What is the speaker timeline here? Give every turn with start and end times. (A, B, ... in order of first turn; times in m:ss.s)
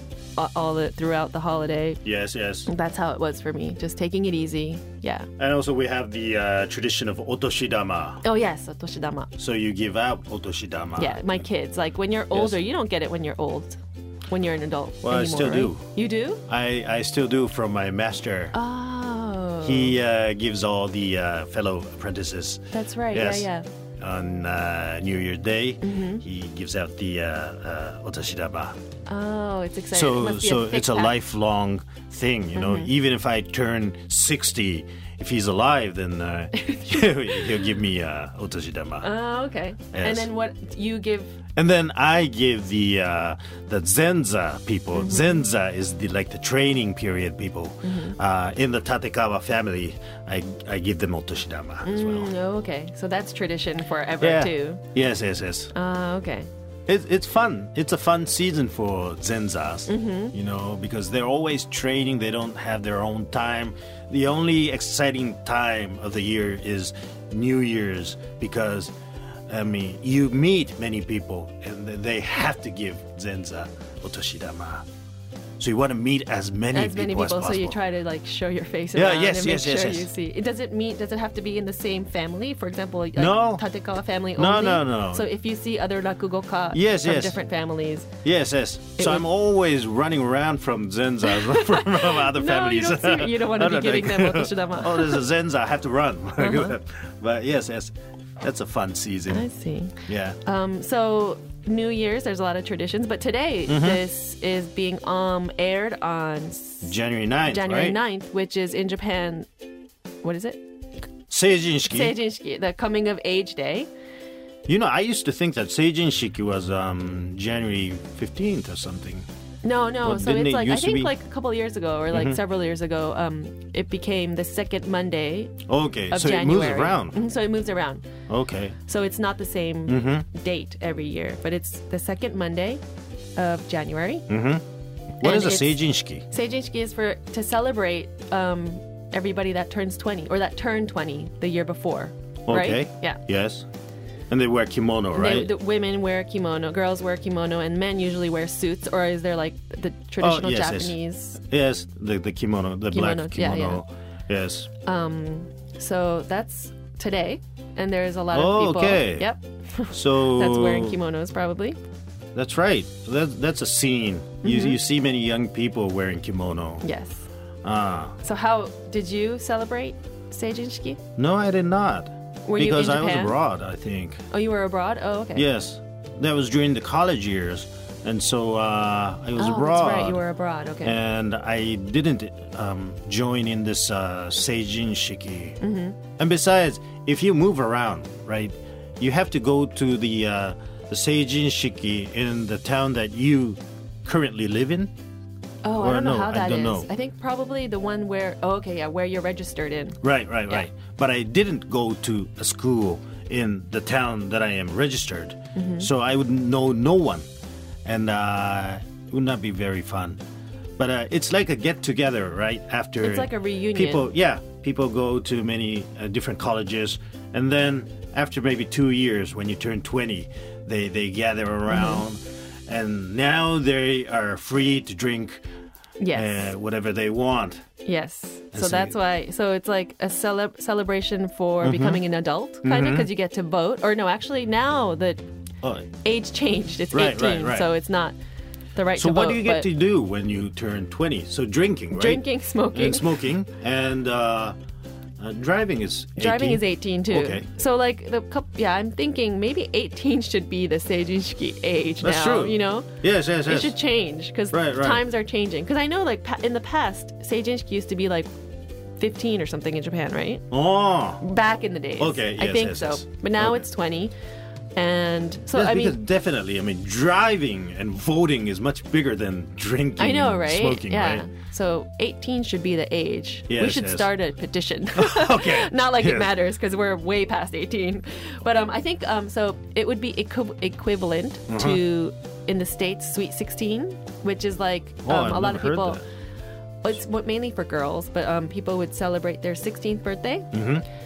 0:00.4-0:02.0 A
0:02.0-0:02.7 B
0:02.7-0:05.3 A
0:05.4-0:08.2 B
0:08.2-0:09.3 A
0:09.4-0:11.4 B
0:11.0-0:16.4 A
0:12.3-0:12.6 B
0:15.0-0:15.9 B
0:16.5-0:18.6 B
0:18.5-0:20.0 A
0:19.6-0:23.5 B
0:22.7-0:23.6 A
0:24.0-0:28.8 B
0:25.8-0:26.2 A
0:29.1-0:31.2 A
0:29.9-0:39.1 B
0:32.6-0:32.9 A
0:36.6-0:37.4 A
0:39.0-0:41.4 A
0:39.9-0:40.3 B
0:41.6-0:52.3 B
0:45.0-0:45.3 A
0:47.8-0:48.2 A
0:51.8-0:54.8 A
0:54.2-0:55.7 B
0:55.7-0:56.5 A
0:56.9-1:08.9 B
0:59.9-1:00.3 A
1:09.5-1:14.8 B
1:15.6-1:17.8 B
1:16.7-1:28.1 A
1:18.9-1:20.1 B
1:23.2-1:23.6 B
1:24.4-1:25.3 B
1:26.7-1:27.4 B
1:28.2-1:39.4 B
1:29.0-1:29.2 A
1:31.2-1:35.2 A
1:36.4-1:36.8 A
1:39.3-1:46.9 A
1:40.1-1:40.4 B
1:43.7-1:44.0 B
1:46.8-1:48.0 B
1:47.5-1:49.5 A
1:50.2-1:50.6 A
1:51.3-1:52.2 B
1:51.9-1:53.9 A
1:54.7-1:59.2 B
1:59.6-2:05.6 A
2:00.0-2:01.1 B
2:02.1-2:02.4 B
2:05.7-2:07.2 B
2:06.1-2:08.0 A
2:08.3-2:08.8 B
2:08.8-2:12.8 A
2:09.9-2:10.2 B
2:13.4-2:14.3 A
2:14.3-2:14.6 B
2:15.2-2:16.2 B
2:15.2-2:23.2 A
2:22.5-2:23.6 B
2:24.3-2:25.5 B
2:25.1-2:31.4 A
2:30.2-2:34.7 B
2:32.9-2:33.8 A
2:34.8-2:41.8 A
2:38.3-2:39.3 B
2:39.9-2:41.0 B
2:42.3-2:46.8 B
2:44.4-2:44.8 A
2:46.8-2:47.3 A
2:47.6-2:48.2 B
2:48.2-2:51.0 A
2:51.2-2:54.2 B
2:52.5-2:53.4 A
2:54.3-2:55.5 A
2:55.3-3:00.2 B
2:59.4-3:01.0 A
3:00.8-3:05.6 B
3:05.6-3:06.0 A
3:06.2-3:14.9 B
3:15.6-3:20.6 A
3:15.8-3:16.9 B
3:20.0-3:27.2 B
3:25.6-3:25.9 A
3:27.8-3:30.2 B
3:30.8-3:45.4 B
3:33.0-3:34.1 A
3:41.7-3:42.0 A
3:46.0-3:46.5 A
3:46.1-3:47.6 B
3:47.8-3:55.2 A
3:48.5-3:49.0 B
3:51.6-3:52.0 B
3:52.6-3:53.1 B
3:55.6-3:55.9 B
3:56.0-3:58.2 A
3:56.9-3:57.7 B
3:58.7-3:59.7 A
3:59.0-4:04.6 B
4:01.9-4:03.2 A
4:05.2-4:07.5 B
4:06.2-4:18.3 A
4:12.0-4:13.8 B
4:14.5-4:15.0 B
4:19.0-4:20.4 A
4:20.5-4:21.2 B
4:21.2-4:24.1 A
4:22.0-4:23.7 B
4:24.8-4:26.0 A
4:25.5-4:31.3 B
4:30.0-4:46.0 A
4:33.5-4:34.1 B
4:34.9-4:36.3 B
4:41.5-4:41.8 B
4:45.0-4:46.0 B
4:46.8-4:50.5 A
4:50.5-4:50.8 B